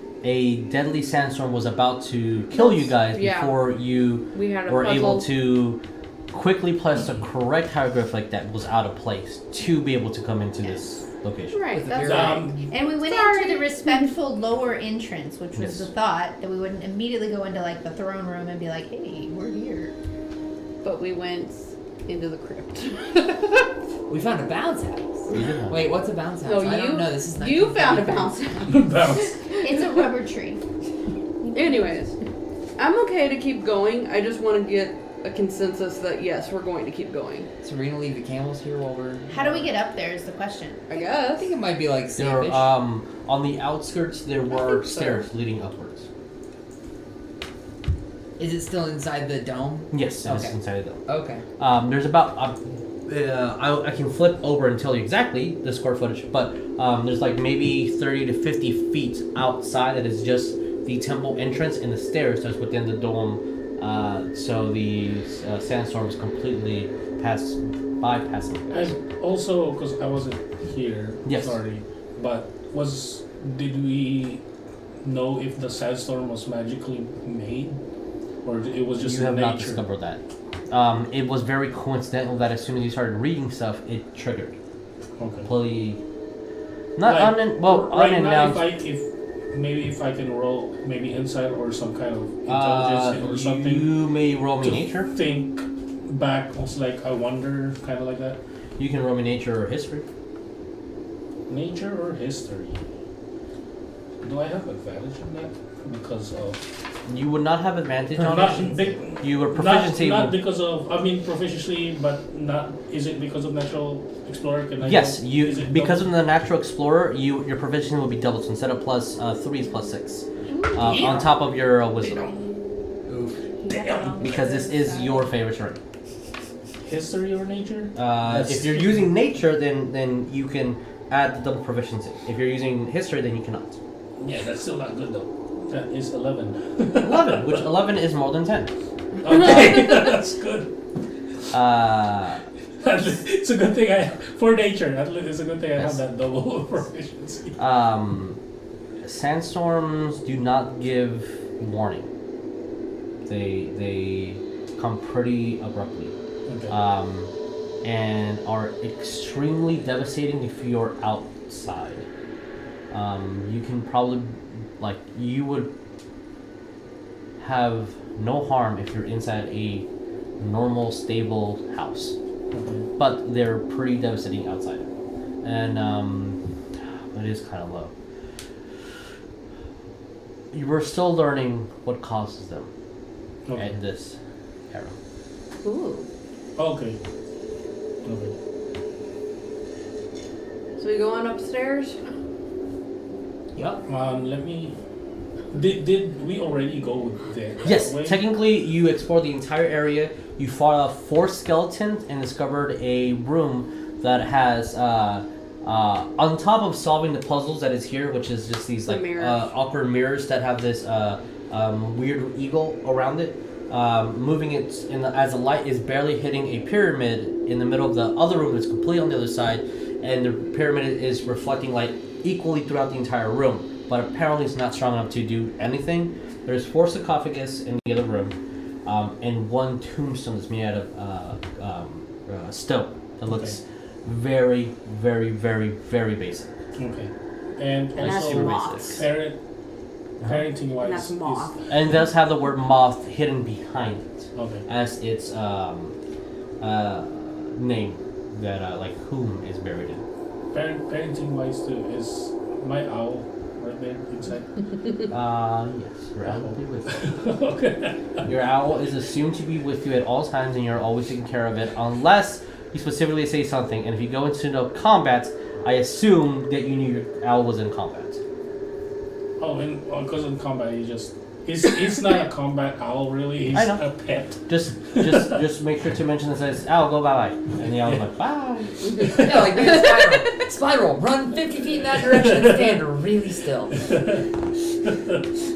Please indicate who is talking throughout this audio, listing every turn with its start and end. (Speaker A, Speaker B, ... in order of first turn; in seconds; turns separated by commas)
Speaker A: 0.2-11.6, Speaker B: 2.5-3.6, Speaker B: 4.3-5.3, Speaker B: 11.5-14.1, Speaker C: 11.7-12.6, Speaker D: 12.0-12.6, Speaker E: 12.7-19.9, Speaker A: 15.5-15.9, Speaker B: 20.8-23.4, Speaker C: 24.1-28.8, Speaker A: 25.3-25.8, Speaker B: 26.4-30.1, Speaker D: 28.6-29.4, Speaker E: 29.6-30.6, Speaker E: 31.4-32.1, Speaker B: 31.5-32.1, Speaker B: 32.8-37.5, Speaker C: 37.6-39.7, Speaker E: 39.3-41.1, Speaker B: 40.9-41.5, Speaker C: 41.3-42.7, Speaker A: 42.1-46.1, Speaker B: 44.5-45.3, Speaker C: 48.4-51.4, Speaker A: 49.9-51.0, Speaker A: 51.6-68.9, Speaker D: 68.7-74.4, Speaker A: 71.2-71.6, Speaker D: 75.0-77.8, Speaker D: 78.4-79.8, Speaker A: 79.0-84.5, Speaker D: 85.2-85.5, Speaker A: 85.5-86.0, Speaker A: 87.0-88.7, Speaker D: 87.0-93.9, Speaker A: 92.5-95.1, Speaker D: 94.6-98.4, Speaker A: 98.8-100.0, Speaker D: 101.5-102.8, Speaker D: 104.2-106.6, Speaker A: 107.1-110.4, Speaker D: 108.1-116.1, Speaker A: 114.8-122.3, Speaker E: 120.5-121.3, Speaker C: 123.1-123.4, Speaker E: 123.6-125.3, Speaker D: 123.7-124.2, Speaker A: 124.2-125.8, Speaker D: 126.8-129.1, Speaker A: 128.0-133.8, Speaker D: 134.2-137.7, Speaker A: 136.9-138.7, Speaker D: 139.2-140.7, Speaker A: 139.3-140.1, Speaker A: 141.5-142.4, Speaker D: 142.8-147.6, Speaker A: 147.6-148.4, Speaker A: 149.0-152.1, Speaker A: 153.2-156.2, Speaker D: 156.5-156.8, Speaker A: 156.7-157.3, Speaker A: 157.8-162.1, Speaker A: 162.9-165.7, Speaker A: 167.4-169.9, Speaker A: 170.4-172.2, Speaker D: 172.5-172.9, Speaker A: 173.0-176.4, Speaker A: 177.1-177.9, Speaker A: 180.5-182.7, Speaker D: 183.4-183.7, Speaker A: 183.6-184.2, Speaker A: 184.7-185.0, Speaker B: 185.6-186.1, Speaker D: 186.6-187.0, Speaker D: 188.0-188.3, Speaker B: 190.8-192.0, Speaker C: 193.5-193.8, Speaker D: 193.9-194.7, Speaker D: 195.5-198.2, Speaker A: 197.6-236.6, Speaker B: 208.8-209.5, Speaker D: 233.3-233.6, Speaker D: 236.8-239.4, Speaker A: 237.9-239.0, Speaker B: 238.0-239.0, Speaker D: 240.2-241.5, Speaker B: 240.8-241.5, Speaker A: 241.7-245.9, Speaker D: 244.3-244.6, Speaker A: 246.6-250.0, Speaker D: 250.5-254.5, Speaker A: 255.1-256.9, Speaker D: 256.3-258.3, Speaker A: 258.2-268.2, Speaker D: 269.4-275.4, Speaker A: 273.5-273.8, Speaker A: 274.5-278.7, Speaker D: 277.7-278.1, Speaker B: 278.8-279.1, Speaker D: 279.0-279.5, Speaker C: 279.2-283.9, Speaker D: 282.0-282.8, Speaker D: 283.8-284.2, Speaker D: 284.8-285.2